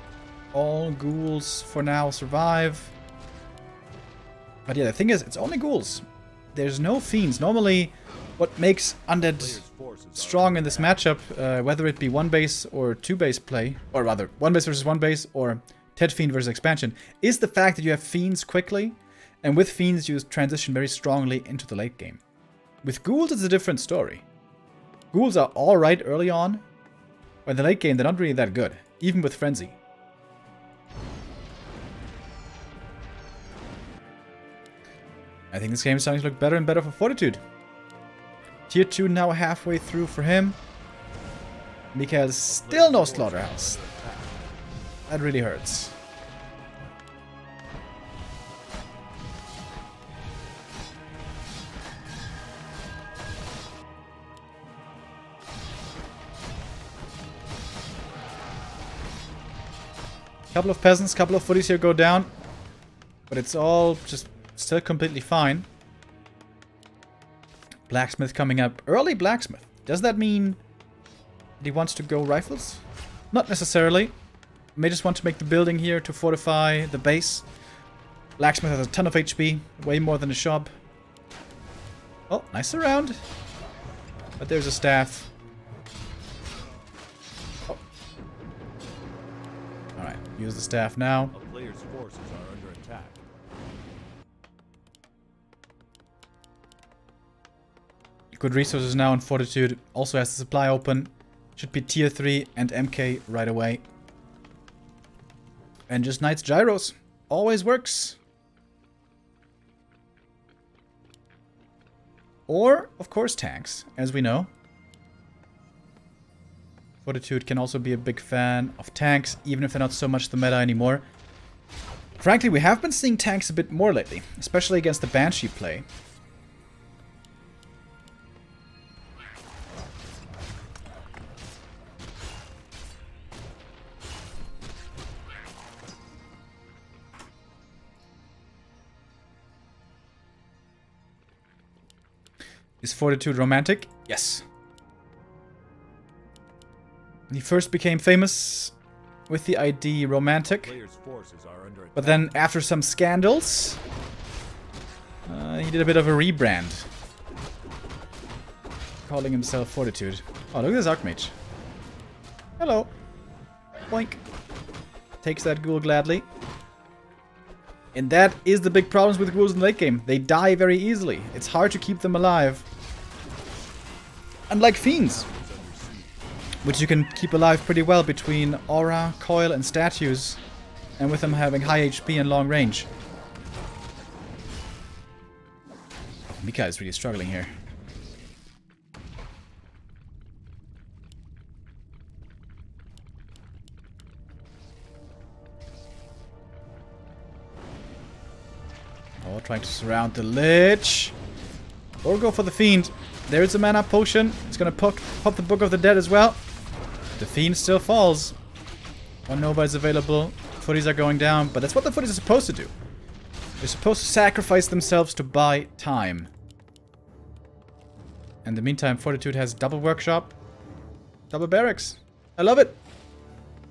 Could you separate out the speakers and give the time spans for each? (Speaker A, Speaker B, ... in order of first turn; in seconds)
Speaker A: 0.5-2.9, 4.7-9.6, 10.2-22.2, 22.8-24.2, 25.1-26.6, 27.5-29.8, 35.5-37.4, 38.7-40.6, 41.9-43.8, 45.1-46.0, 60.5-62.3, 63.3-65.7, 67.9-70.6, 71.6-74.2, 74.8-77.5, 78.4-80.7, 82.3-83.2, 84.4-85.3, 90.0-91.3, 98.4-103.8, 105.9-108.2, 112.5-114.5, 117.0-121.0, 122.2-125.9, 142.8-144.4, 147.3-148.7, 149.3-150.7, 152.0-153.8, 155.3-156.9, 159.0-161.3, 162.6-162.9, 163.9-164.2, 165.2-166.3, 167.9-172.7, 174.5-175.3, 176.6-180.4, 181.0-182.9, 186.3-187.5, 199.2-201.2, 202.0-206.4, 207.2-208.4, 209.3-212.7, 213.6-216.3, 218.4-220.3, 221.3-222.8
Speaker B: 9.2-11.2, 42.5-44.5, 91.3-93.2, 150.5-152.3, 175.0-176.2, 181.1-182.7